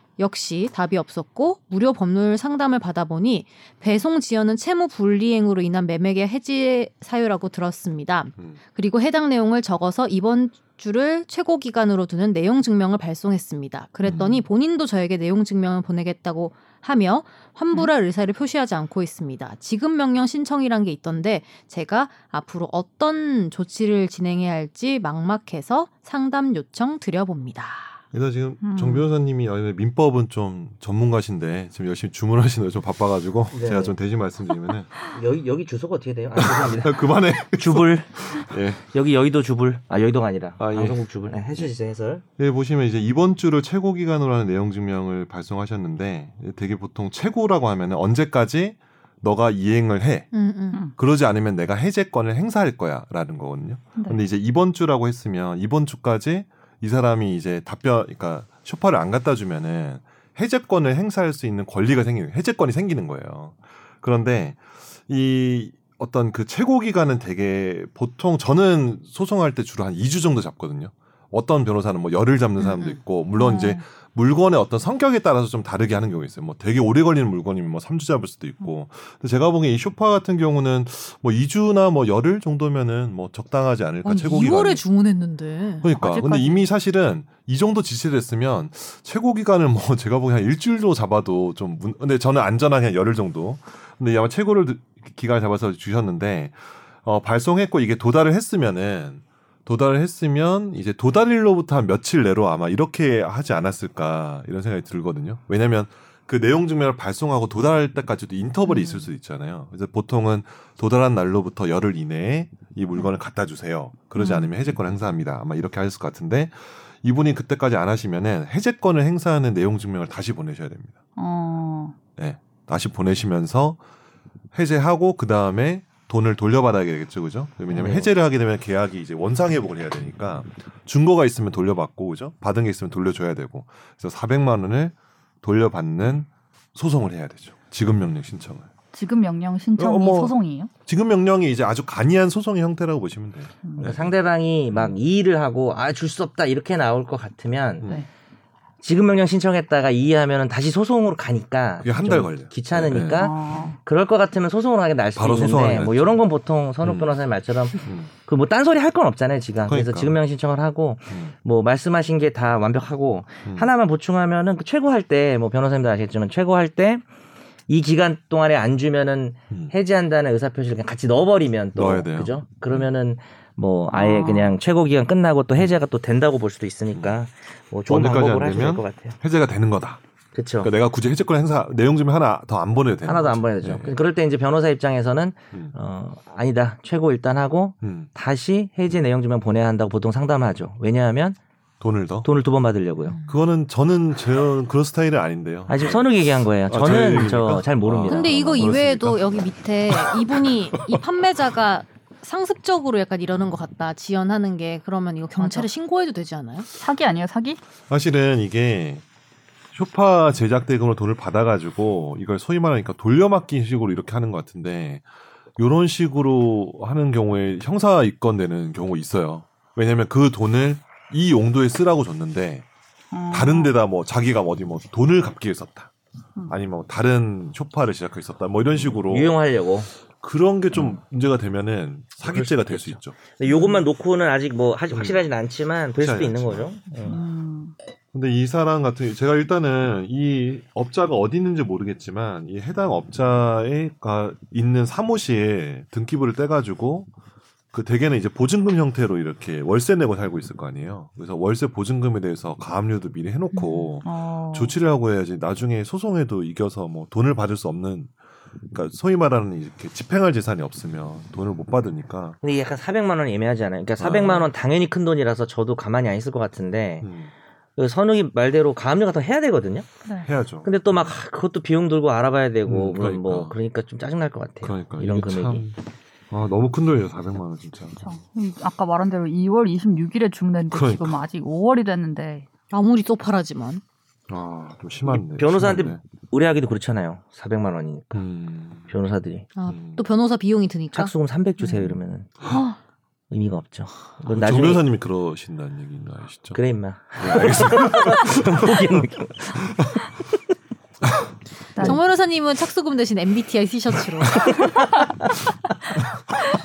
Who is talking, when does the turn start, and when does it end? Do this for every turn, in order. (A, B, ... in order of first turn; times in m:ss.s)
0:00.2-0:28.0 A
0:14.0-0:14.4 B
0:28.1-0:34.9 B
0:28.6-0:29.1 C
0:33.5-0:34.0 D
0:35.1-0:38.1 D
0:36.4-0:38.8 B
0:38.9-0:42.2 D
0:40.6-0:41.0 B
0:42.4-0:50.3 B
0:50.3-0:50.8 A
0:51.0-1:24.8 B
1:12.7-1:13.0 A
1:13.4-1:13.8 C
1:24.0-1:26.6 A
1:25.8-2:01.0 B
1:48.7-1:49.0 C
2:01.2-2:02.0 C
2:02.2-2:03.8 B
2:04.5-2:18.7 B
2:07.7-2:08.1 D
2:18.9-2:20.7 C
2:19.8-2:20.4 B
2:20.9-2:24.1 B
2:23.6-2:23.9 C
2:23.8-2:27.9 D
2:24.7-2:25.0 B
2:28.8-2:47.0 D
2:31.8-2:33.3 B
2:32.9-2:33.8 C
2:35.2-2:36.2 B
2:36.8-2:37.2 B
2:37.8-2:38.1 B
2:39.6-2:40.2 B
2:47.7-2:59.2 D
2:51.7-2:52.9 B
2:53.9-2:54.5 C
2:57.9-3:00.0 B
3:00.3-3:00.7 D
3:00.6-3:04.0 B
3:03.0-3:11.4 D
3:07.8-3:08.1 B
3:11.8-3:12.3 B
3:12.2-3:13.2 D
3:13.1-3:13.4 A
3:13.2-3:16.1 B
3:15.7-3:18.8 D
3:16.7-3:20.2 B
3:18.1-3:26.7 A
3:25.4-3:25.7 C
3:26.8-3:27.6 C
3:27.9-3:29.0 B
3:29.7-3:35.0 B
3:35.6-3:42.6 B
3:43.1-3:43.7 C
3:43.3-3:45.9 B
3:46.5-3:49.4 B
3:48.8-3:49.9 D
3:50.2-3:53.2 B
3:52.2-3:57.2 D
3:54.9-3:55.2 B
3:56.0-3:56.7 B
3:57.0-3:57.7 C
3:58.1-4:07.1 B
4:07.7-4:18.1 B
4:13.5-4:14.7 C
4:18.7-4:22.4 B
4:22.4-4:27.1 D
4:24.0-4:24.5 B
4:27.0-4:27.3 B
4:27.8-4:29.9 D
4:30.2-4:30.7 B
4:30.6-4:35.6 D
4:32.7-4:33.6 B
4:34.6-4:35.7 B
4:36.3-4:38.0 B
4:38.0-4:42.5 C
4:40.7-4:41.2 B
4:42.7-4:43.8 A
4:44.3-4:46.0 B
4:45.1-4:48.2 D
4:48.1-4:48.9 B
4:48.9-4:49.5 D
4:49.6-4:51.1 A
4:49.7-4:50.0 B
4:50.9-4:52.3 D
4:53.3-4:54.8 D
4:54.2-4:56.6 B
4:56.5-5:00.0 D
4:57.2-4:59.1 B
5:01.8-5:02.0 C
5:01.8-5:04.7 A
5:04.4-5:05.4 D